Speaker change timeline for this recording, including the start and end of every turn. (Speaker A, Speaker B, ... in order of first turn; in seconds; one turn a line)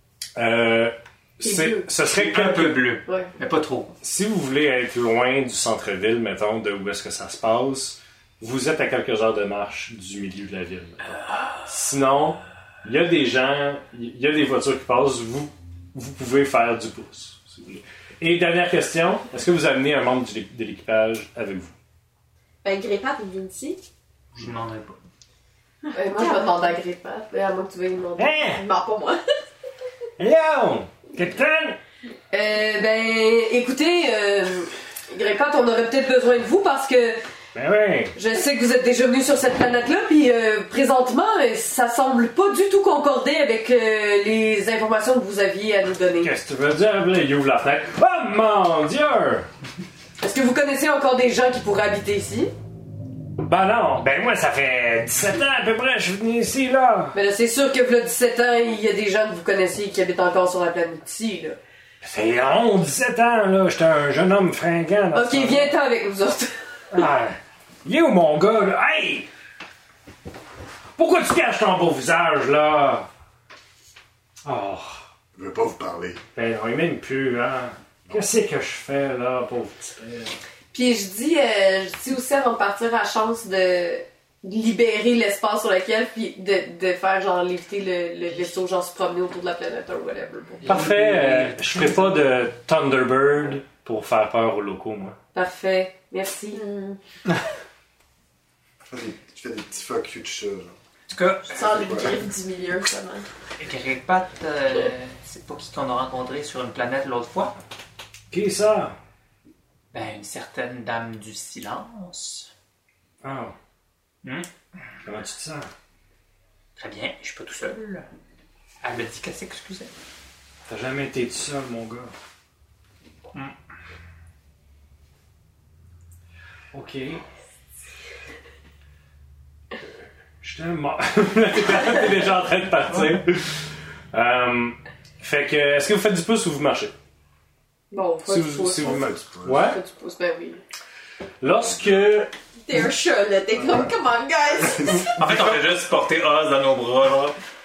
Speaker A: 0.3-2.8
Speaker B: 1.4-1.9
Speaker C: 2.0-4.0
Speaker B: 3.0-3.3
Speaker A: 4.0-21.7
Speaker D: 22.6-23.9
Speaker C: 24.3-25.0
Speaker D: 25.9-26.5
Speaker B: 25.9-28.4
Speaker A: 28.2-28.6
Speaker D: 28.5-29.2
Speaker A: 30.2-31.8
Speaker B: 32.3-37.2
Speaker A: 37.5-38.1
Speaker B: 38.1-46.3
Speaker A: 46.2-49.5
Speaker B: 50.2-52.5
Speaker A: 53.4-57.1
Speaker B: 57.1-61.6
Speaker A: 62.0-65.8
Speaker B: 65.1-66.5
Speaker A: 66.9-69.3
Speaker A: 71.0-73.1
Speaker A: 74.4-75.0
Speaker E: 75.3-76.2
Speaker A: 76.3-80.3
Speaker E: 78.0-78.3
Speaker B: 80.7-90.9
Speaker A: 90.6-95.2
Speaker C: 90.7-92.0
Speaker B: 95.3-96.6
Speaker D: 96.5-97.0
Speaker E: 98.9-100.8
Speaker C: 101.1-102.2
Speaker D: 101.5-103.3
Speaker E: 101.7-102.2
Speaker C: 103.6-107.5
Speaker A: 108.3-108.9
Speaker C: 109.9-112.5
Speaker A: 113.2-113.5
Speaker C: 114.2-114.5
Speaker A: 115.0-115.7
Speaker C: 116.8-118.1
Speaker C: 118.8-119.9
Speaker A: 120.7-122.1
Speaker A: 126.7-127.2
Speaker A: 130.4-136.9
Speaker B: 137.9-139.0
Speaker A: 138.3-139.8
Speaker E: 138.8-139.7
Speaker B: 139.6-140.6
Speaker A: 141.4-142.3
Speaker E: 141.6-142.1
Speaker D: 142.6-145.2
Speaker E: 143.5-143.9
Speaker E: 144.5-145.1
Speaker C: 145.2-147.4